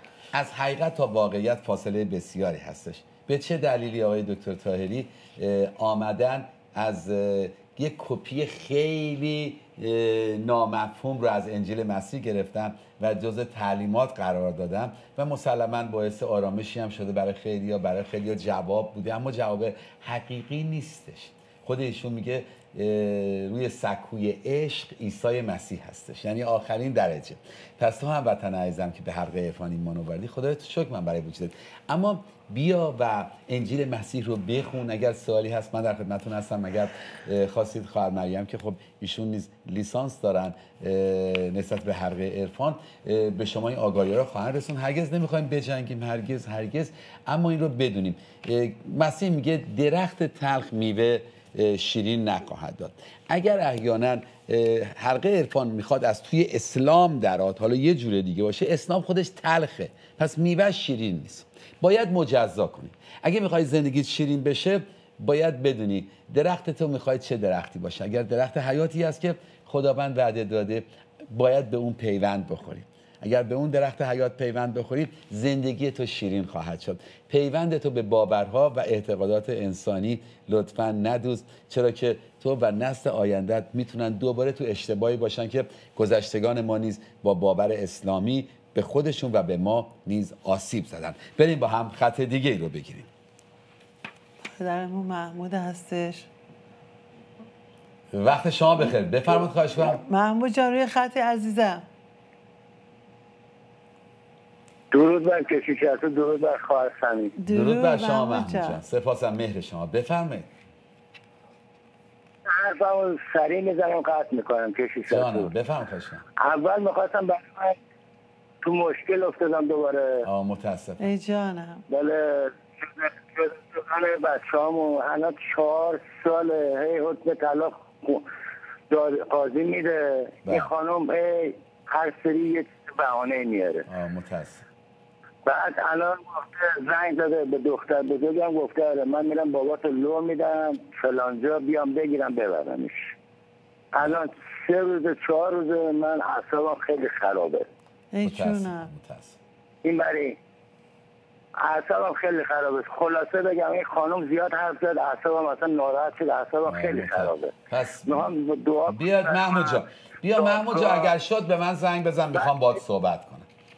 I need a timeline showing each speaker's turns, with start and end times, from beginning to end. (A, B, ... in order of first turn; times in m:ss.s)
0:00.3-1:33.1 A
1:34.6-1:36.3 B
1:38.1-1:40.0 A
1:40.1-1:41.8 B
1:44.9-1:47.4 C
1:47.4-1:48.8 B
1:47.5-1:50.5 A
1:52.5-1:55.5 C
1:55.1-1:56.2 A
1:56.4-1:57.8 C
1:58.6-2:00.2 C
2:00.2-2:01.0 A
2:01.0-2:01.8 B
2:01.9-2:08.3 C
2:08.9-2:13.9 C
2:10.4-2:10.7 A
2:13.9-2:14.7 A
2:15.4-2:23.1 C
2:23.9-2:27.7 C
2:28.1-2:28.9 B
2:28.2-2:29.4 A
2:29.8-2:30.4 C
2:31.6-2:37.5 C
2:36.7-2:38.3 A
2:38.1-2:39.8 C
2:38.9-2:43.5 A
2:40.4-2:41.1 C